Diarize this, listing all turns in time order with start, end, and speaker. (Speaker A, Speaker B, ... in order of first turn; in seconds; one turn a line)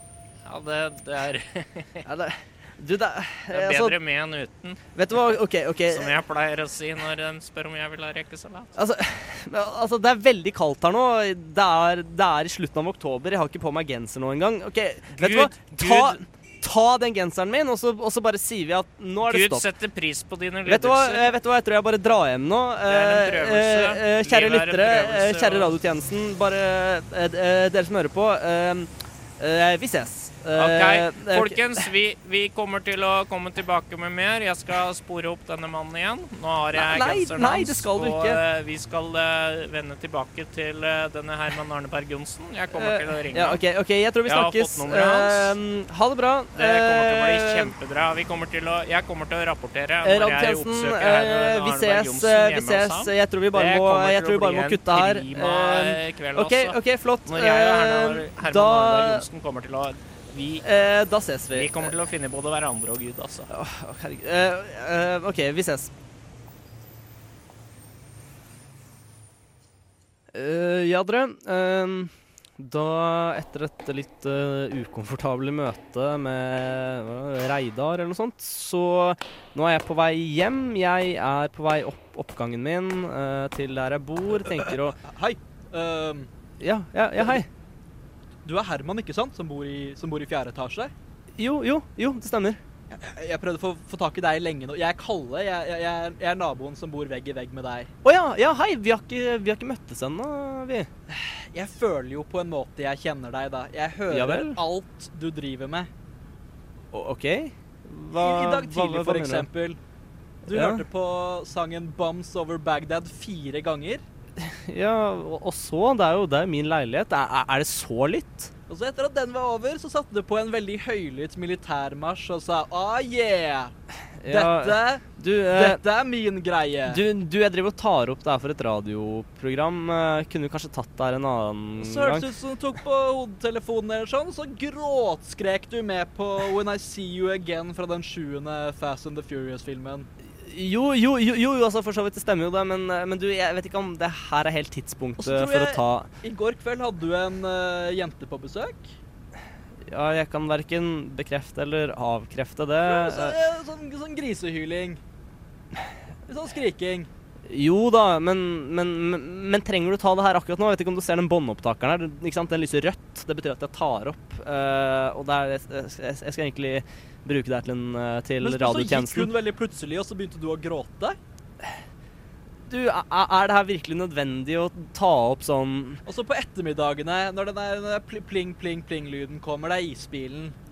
Speaker A: 0.4-2.0
Speaker B: 2.0-4.0
Speaker A: 3.5-8.7
Speaker B: 4.9-6.2
Speaker B: 8.8-19.7
Speaker A: 15.2-16.2
Speaker A: 19.2-21.4
Speaker B: 20.6-31.9
Speaker A: 22.9-25.7
Speaker A: 30.6-43.6
Speaker B: 36.7-38.4
Speaker B: 42.7-47.7
Speaker A: 44.2-45.6
Speaker A: 46.5-60.6
Speaker B: 50.0-59.2
Speaker B: 60.6-61.9
Speaker A: 61.5-63.5
Speaker B: 63.5-65.9
Speaker B: 70.3-85.0
Speaker C: 84.6-86.3
Speaker B: 86.6-87.5
Speaker C: 88.4-90.9
Speaker B: 91.4-92.6
Speaker C: 92.9-97.9
Speaker B: 98.0-100.9
Speaker C: 101.1-105.9
Speaker B: 104.1-104.6
Speaker B: 106.9-109.5
Speaker C: 108.1-109.8
Speaker C: 110.5-114.0
Speaker B: 110.5-110.8
Speaker B: 114.4-118.5
Speaker C: 118.7-123.7
Speaker B: 124.2-125.8
Speaker C: 124.3-127.0
Speaker B: 126.8-132.3
Speaker C: 131.8-140.1
Speaker B: 140.3-146.1
Speaker C: 145.2-148.9
Speaker B: 149.8-153.4
Speaker C: 152.8-155.0
Speaker C: 156.3-157.1
Speaker B: 157.5-169.3
Speaker C: 168.4-171.2
Speaker B: 172.7-176.0
Speaker C: 176.1-180.5